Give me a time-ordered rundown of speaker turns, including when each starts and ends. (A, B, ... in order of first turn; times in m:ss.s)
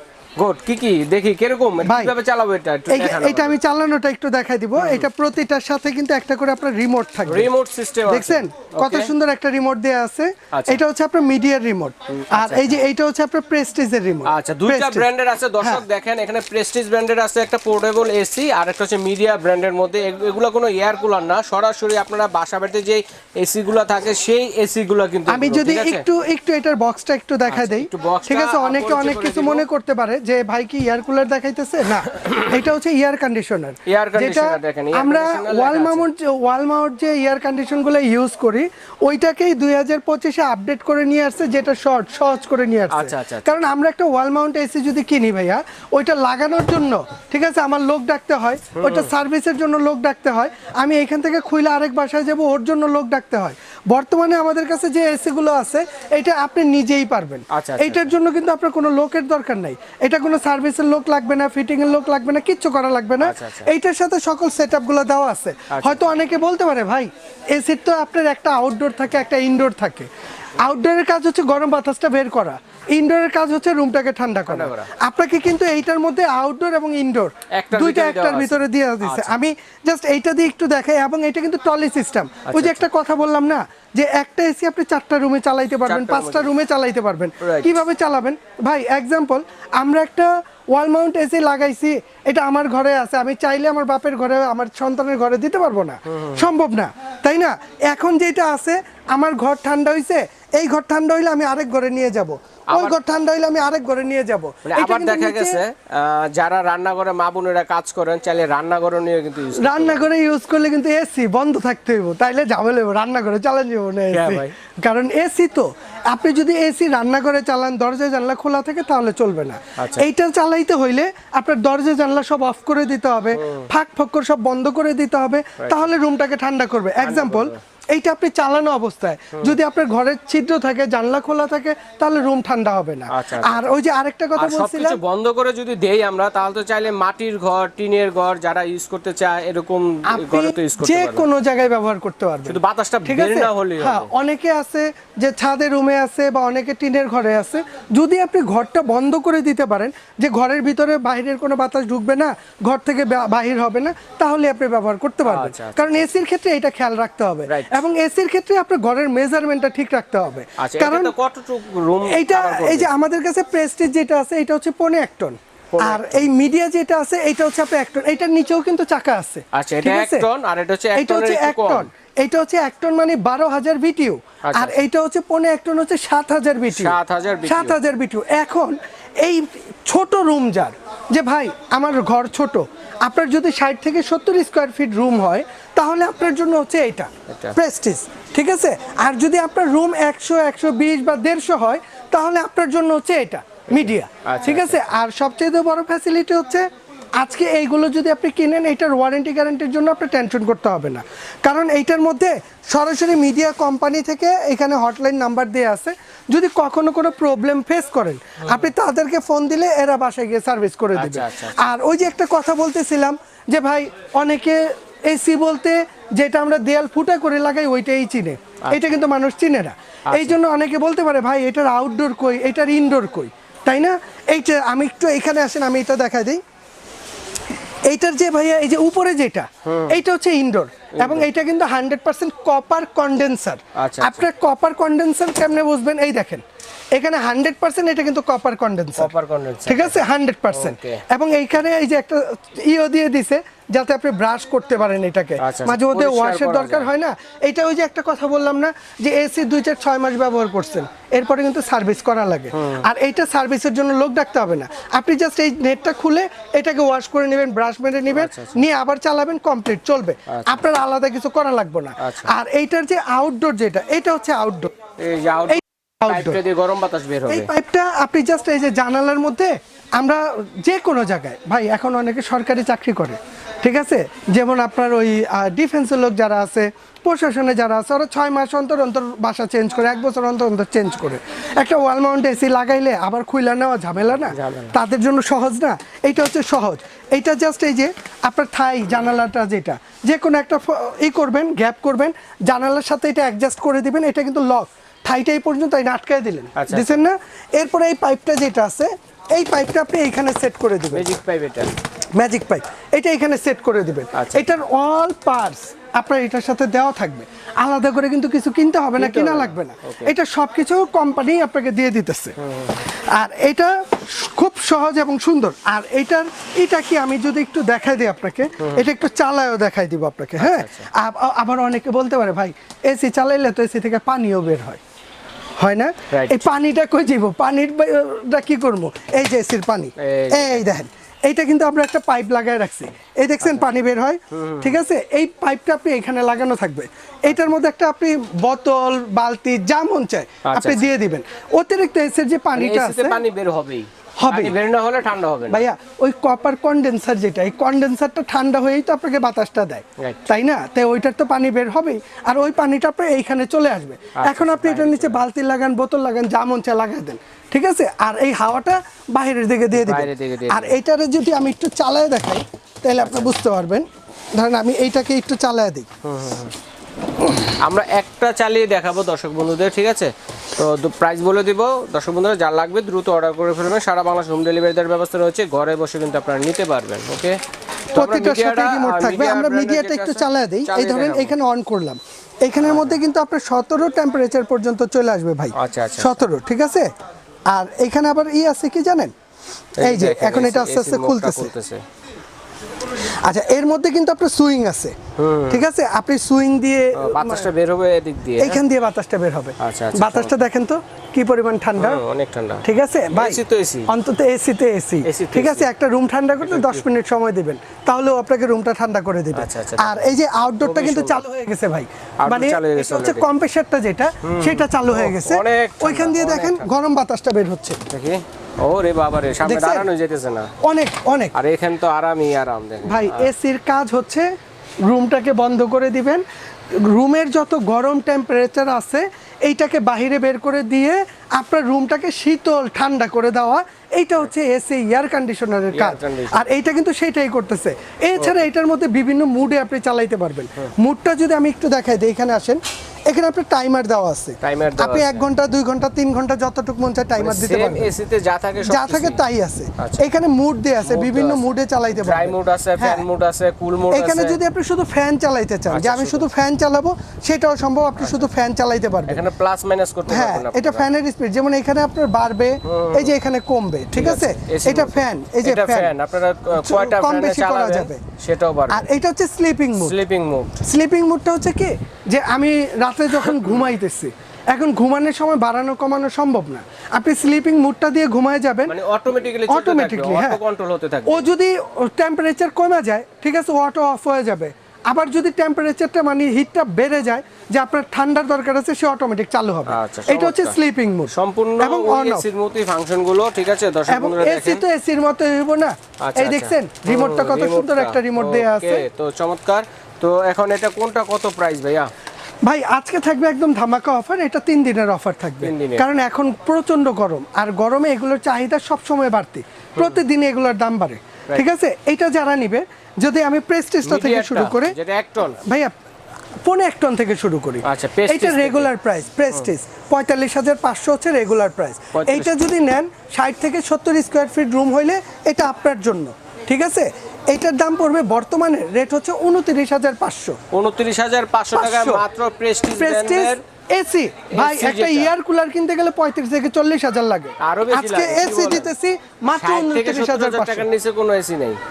0:00.4-0:03.6 A
0:01.8-0:02.2 B
0:02.9-0:07.5 B
0:04.8-0:05.1 A
0:07.3-0:09.1 A
0:08.1-0:15.1 B
0:10.5-0:10.8 A
0:12.1-0:12.8 A
0:14.2-0:26.0 A
0:25.3-1:45.6 B
0:27.5-0:29.6 A
0:33.8-0:36.1 A
0:42.9-0:43.6 A
0:48.7-0:49.1 A
0:57.5-0:58.1 A
1:03.2-1:03.7 A
1:05.7-1:06.1 A
1:14.5-1:14.9 A
1:17.5-1:19.4 A
1:22.4-1:22.8 A
1:25.8-1:26.5 A
1:27.4-1:27.8 A
1:36.1-1:36.4 A
1:42.7-1:43.0 A
1:44.6-1:50.1 A
1:49.6-2:15.0 B
1:54.1-1:54.5 A
1:59.8-2:00.1 A
2:03.3-2:03.7 A
2:05.6-2:05.9 A
2:07.0-2:07.6 A
2:13.1-2:13.6 A
2:14.4-2:21.2 A
2:20.1-2:41.1 B
2:22.5-2:24.1 A
2:35.2-2:36.1 A
2:37.5-2:37.8 A
2:40.6-2:42.9 A
2:42.1-2:50.3 B
2:45.7-2:46.3 A
2:49.5-2:51.9 A
2:50.9-3:16.6 B
2:54.4-2:54.8 A
2:56.7-2:57.8 A
3:07.3-3:07.6 A
3:13.7-3:14.9 A
3:17.2-3:46.4 B
3:30.9-3:31.5 A
3:40.1-3:40.4 A
3:47.9-3:56.4 B
3:49.6-3:50.0 A
3:50.9-3:51.2 A
3:53.8-3:54.2 A
3:56.9-3:59.1 B
3:59.0-4:01.0 A
3:59.6-4:24.7 B
4:05.4-4:06.9 A
4:12.5-4:12.8 A
4:18.1-4:18.6 A
4:20.3-4:20.6 A
4:22.0-4:22.3 A
4:25.0-4:27.5 A
4:25.5-4:26.4 B
4:27.3-5:01.1 B
4:44.3-4:44.7 A
4:56.6-4:57.0 A
5:00.9-5:01.7 A
5:02.2-5:12.4 B
5:04.1-5:04.4 A
5:09.0-5:10.1 A
5:12.4-5:12.8 A
5:12.9-5:24.8 B
5:18.6-5:18.8 A
5:20.4-5:20.9 A
5:25.6-5:43.2 B
5:26.1-5:26.5 A
5:30.0-5:30.7 A
5:33.4-5:33.7 A
5:34.3-5:34.8 A
5:40.4-5:40.9 A
5:42.5-5:45.6 A
5:44.2-5:44.6 B
5:45.5-6:05.9 B
5:50.0-5:50.2 A
5:54.2-5:55.2 A
5:59.7-6:00.7 A
6:03.0-6:03.4 A
6:06.0-6:06.5 A
6:07.4-6:17.4 A
6:17.9-6:21.3 A
6:17.9-6:26.9 B
6:22.6-6:23.0 A
6:25.5-6:26.2 A
6:27.5-6:29.1 B
6:29.8-6:31.8 A
6:29.8-6:31.5 B
6:33.2-6:34.9 B
6:35.2-6:35.6 A
6:35.5-6:37.5 B
6:37.0-6:38.6 A
6:38.4-6:42.0 B
6:39.6-6:40.3 A
6:41.8-6:43.9 A
6:42.6-6:57.8 B
6:45.0-6:45.7 A
6:46.4-6:46.8 A
6:49.3-6:50.1 A
6:50.6-6:51.2 A
6:52.2-6:53.2 A
6:54.2-6:56.7 A
6:57.9-7:00.5 A
6:59.4-6:59.9 B
7:00.6-7:01.3 B
7:01.3-7:03.3 A
7:02.8-7:04.3 B
7:04.8-7:06.2 B
7:06.8-7:27.9 B
7:15.7-7:16.4 A
7:24.4-7:25.3 A
7:27.2-7:29.2 A
7:28.6-7:33.0 B
7:29.8-7:30.0 A
7:30.8-7:34.4 A
7:33.9-7:39.2 B
7:35.7-7:36.3 A
7:38.0-7:38.2 A
7:39.1-7:40.8 A
7:40.1-7:45.9 B
7:42.6-7:43.1 A
7:43.9-7:48.9 A
7:46.5-7:48.0 B
7:48.7-7:50.0 B
7:49.8-7:50.6 A
7:50.6-7:58.7 B
7:58.7-8:01.3 A
7:59.5-8:00.4 B
8:01.1-8:12.3 B
8:09.7-8:10.6 A
8:11.1-8:14.6 A
8:13.9-8:18.8 B
8:16.0-8:21.9 A
8:22.4-8:34.8 B
8:25.4-8:25.8 A
8:33.8-8:35.4 A
8:35.4-8:35.7 B
8:36.4-8:50.4 B
8:37.6-8:38.7 A
8:41.9-8:42.4 A
8:50.5-8:53.4 A
8:51.5-8:52.0 B
8:52.8-9:00.7 B
8:54.3-8:55.1 A
8:57.4-8:58.7 A
8:59.3-9:01.6 A